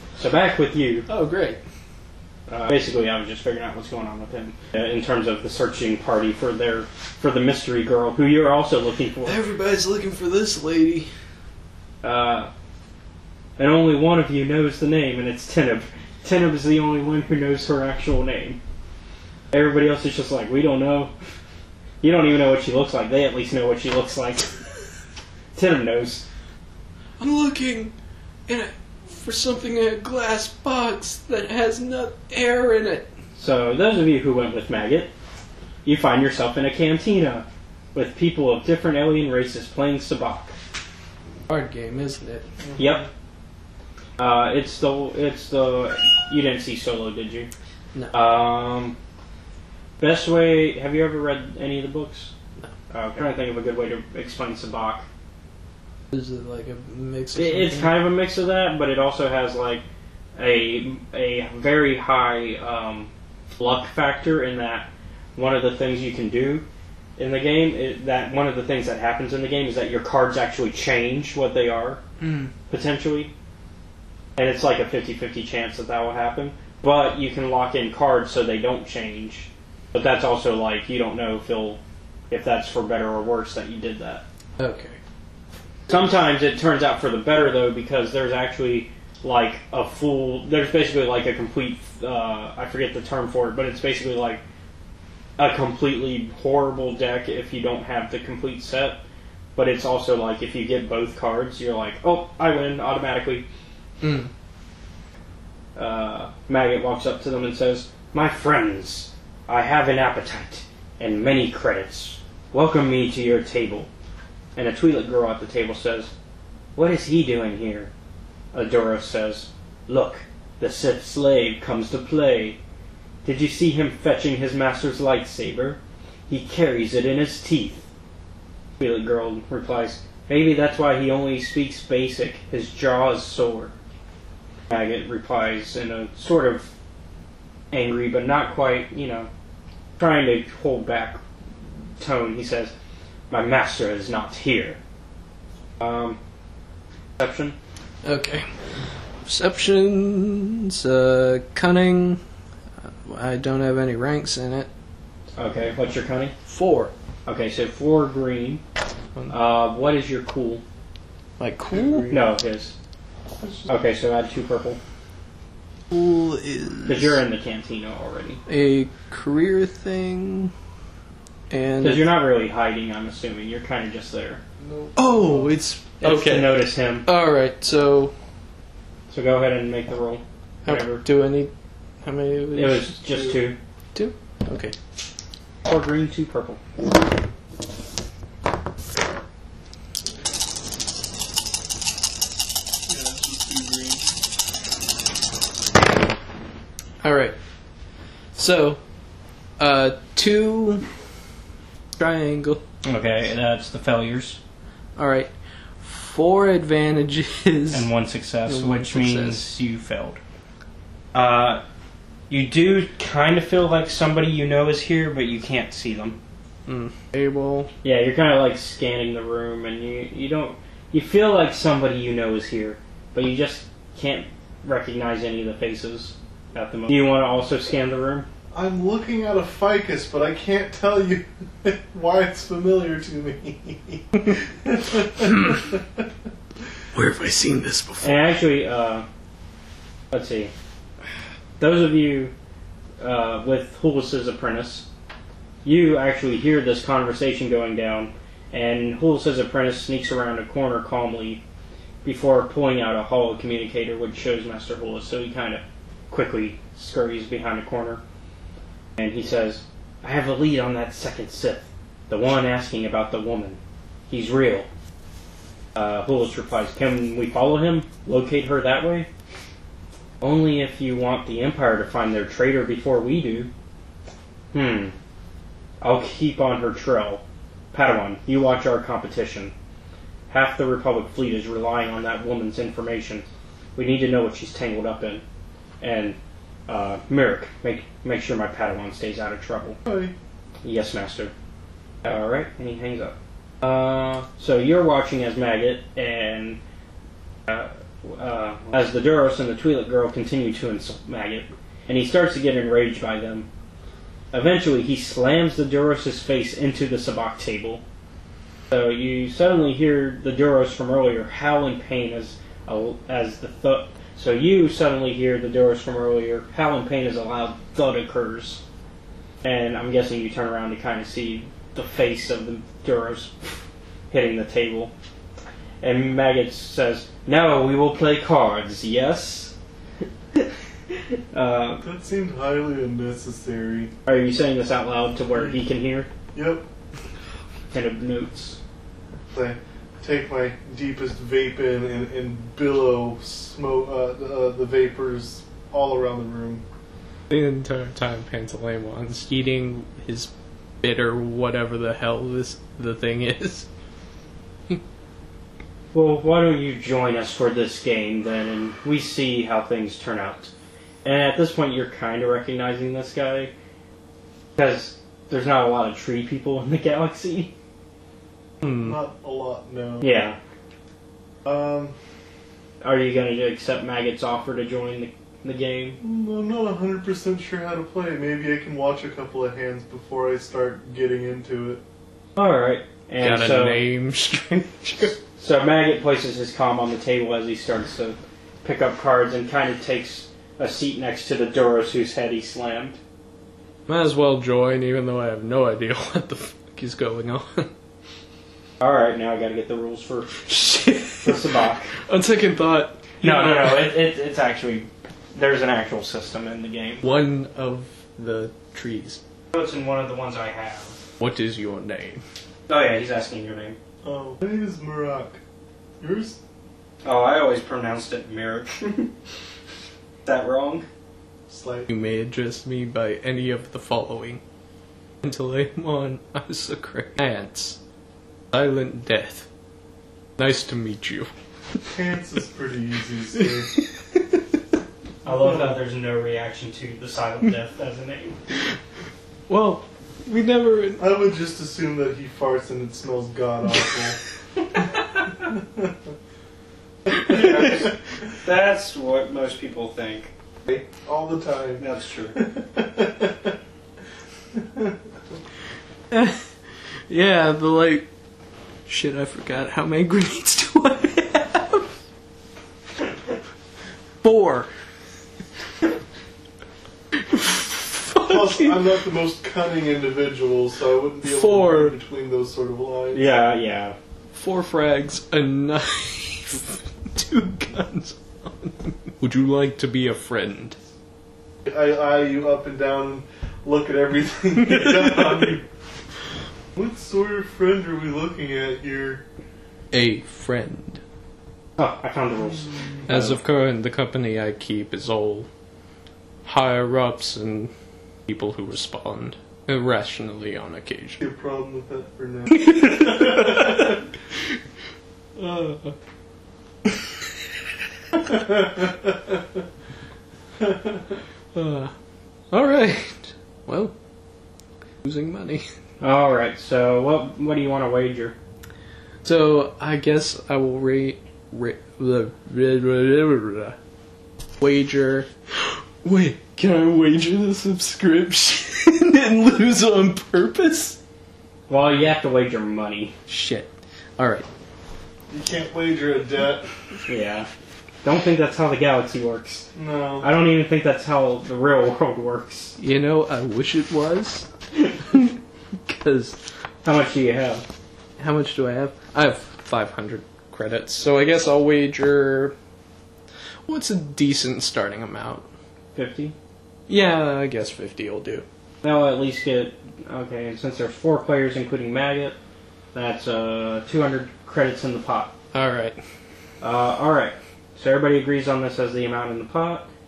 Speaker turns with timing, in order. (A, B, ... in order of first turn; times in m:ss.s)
0:00.2-0:01.1 A
0:01.1-0:01.6 B
0:02.5-0:09.4 A
0:09.2-0:11.1 B
0:12.0-0:12.5 A
0:13.6-0:18.6 A
0:19.5-0:21.1 A
0:22.0-0:24.5 A
0:25.6-0:26.2 A
0:27.2-0:27.9 B
0:28.5-0:33.1 B
0:33.4-0:35.1 A
0:35.8-0:40.6 A
0:41.5-0:42.5 B
0:42.6-0:43.1 C
0:42.8-0:43.0 A
0:44.2-0:47.5 A
0:48.1-0:49.0 A
0:50.0-0:52.3 A
0:52.9-0:55.0 A
0:56.1-0:58.0 B
0:57.4-0:59.8 A
1:00.4-1:06.6 A
1:07.2-1:12.0 A
1:12.2-1:12.5 B
1:12.7-1:13.3 A
1:14.4-1:24.2 A
1:24.6-1:25.0 B
1:25.9-1:34.4 A
1:35.4-1:39.0 A
1:39.6-1:43.4 A
1:44.0-1:44.3 B
1:45.8-1:53.9 A
1:54.6-1:56.1 A
1:56.8-1:57.9 A
1:58.5-2:02.6 A
2:03.2-2:07.9 A
2:08.8-2:13.7 A
2:14.7-2:16.7 A
2:17.7-2:19.3 A
2:20.0-2:21.2 A
2:22.0-2:22.7 A
2:23.3-2:24.8 A
2:25.8-2:26.2 A
2:27.2-2:27.6 A
2:28.0-2:32.2 B
2:32.8-2:34.7 B
2:35.4-2:36.4 A
2:36.5-2:36.9 B
2:37.3-2:38.6 A
2:39.3-2:40.6 A
2:41.4-2:42.2 B
2:41.7-2:42.2 C
2:42.1-2:42.8 A
2:43.7-2:44.8 A
2:45.9-2:47.2 B
2:46.8-2:48.4 A
2:48.5-2:50.5 B
2:51.5-2:52.1 B
2:51.8-2:54.4 A
2:54.6-2:55.6 C
2:55.0-2:58.2 B
2:56.0-2:57.1 A
2:59.1-3:01.0 A
3:00.6-3:01.5 B
3:02.0-3:03.3 B
3:02.6-3:03.6 A
3:04.0-3:04.8 B
3:05.7-3:06.6 A
3:12.9-3:14.1 C
3:17.0-3:17.4 B
3:18.4-3:18.8 B
3:19.6-3:20.9 B
3:22.0-3:22.6 B
3:22.8-3:24.4 A
3:25.0-3:25.3 B
3:25.8-3:27.9 B
3:27.7-3:30.2 A
3:28.5-3:29.6 B
3:31.1-3:31.6 A
3:32.3-3:36.2 A
3:36.7-3:37.7 B
3:37.8-3:48.3 A
3:48.5-3:56.1 C
3:56.9-3:58.2 B
3:58.0-3:59.1 A
4:00.1-4:00.5 A
4:01.6-4:02.3 A
4:03.0-4:04.9 A
4:05.6-4:11.4 A
4:12.0-4:18.0 A
4:19.0-4:24.7 A
4:25.8-4:29.1 A
4:30.2-4:33.5 A
4:34.5-4:35.0 A
4:35.8-4:37.2 A
4:37.7-4:39.5 A
4:40.3-4:43.2 A
4:43.8-4:45.2 A
4:45.8-4:49.8 A
4:49.8-4:50.1 C
4:50.6-4:51.3 A
4:52.0-4:56.6 A
4:57.5-5:03.5 A
5:04.3-5:07.8 A
5:08.7-5:18.6 A
5:19.4-5:24.9 A
5:25.8-5:29.6 A
5:31.3-5:31.8 A
5:31.8-5:33.9 C
5:34.1-5:36.1 A
5:35.4-5:35.6 C
5:36.3-5:36.7 C
5:37.7-5:38.6 A
5:39.3-5:46.6 C
5:47.3-5:53.7 B
5:55.9-6:00.5 A
6:01.0-6:03.5 A
6:04.6-6:07.5 A
6:08.6-6:09.0 B
6:08.7-6:10.1 C
6:10.0-6:10.4 A
6:11.4-6:12.0 C
6:12.8-6:16.0 A
6:16.0-6:21.8 C
6:22.4-6:23.8 A
6:23.2-6:25.2 B
6:25.4-6:33.0 A
6:33.9-6:37.7 B
6:38.8-6:40.5 A
6:40.4-6:43.9 B
6:41.2-6:41.9 A
6:43.2-6:47.0 A
6:47.0-6:49.2 B
6:49.5-6:51.0 A
6:51.2-6:52.2 B
6:52.7-6:53.8 A
6:54.0-6:55.4 C
6:56.0-6:56.4 C
6:57.0-6:59.1 A
7:00.3-7:00.9 A
7:01.5-7:01.9 C
7:01.9-7:04.4 B
7:05.2-7:07.8 B
7:08.5-7:09.5 B
7:10.4-7:11.3 B
7:11.9-7:13.8 C
7:13.8-7:14.4 B
7:15.2-7:18.4 A
7:15.3-7:15.7 C
7:19.5-7:21.1 B
7:21.0-7:24.2 C
7:25.4-7:25.9 C
7:27.1-7:30.9 A
7:31.0-7:33.6 C
7:31.8-7:32.4 A
7:34.5-7:35.0 C
7:36.1-7:36.5 B
7:37.1-7:38.1 B
7:38.9-7:41.9 B
7:44.2-7:44.7 B
7:47.3-7:48.9 B
7:48.2-7:53.3 C
7:51.2-7:52.0 B
7:53.1-7:54.0 A
7:54.3-8:00.8 B
8:01.7-8:05.7 C
8:04.7-8:05.4 B
8:06.8-8:09.2 C
8:09.9-8:11.0 B
8:11.8-8:13.4 A
8:13.1-8:15.5 B
8:16.4-8:17.7 B
8:18.3-8:21.2 B
8:21.2-8:23.9 C
8:22.5-8:24.0 B
8:25.4-8:26.0 B
8:28.3-8:29.1 C
8:30.6-8:31.2 C
8:31.5-8:31.9 B
8:32.5-8:33.9 B
8:35.0-8:35.7 B
8:36.0-8:38.4 A
8:39.2-8:43.8 B
8:44.6-8:51.0 B
8:51.7-8:53.2 A
8:53.3-8:54.5 B
8:55.3-8:56.7 C
8:57.1-8:57.5 A
8:58.0-8:59.7 A
8:59.8-9:00.3 C
9:00.2-9:02.8 A
9:02.8-9:06.4 B
9:06.8-9:07.7 A
9:08.2-9:12.6 B
9:13.7-9:15.4 B
9:16.0-9:16.4 A
9:16.9-9:18.4 B
9:18.8-9:22.4 A
9:22.9-9:25.4 A
9:25.5-9:26.0 B
9:26.6-9:29.9 A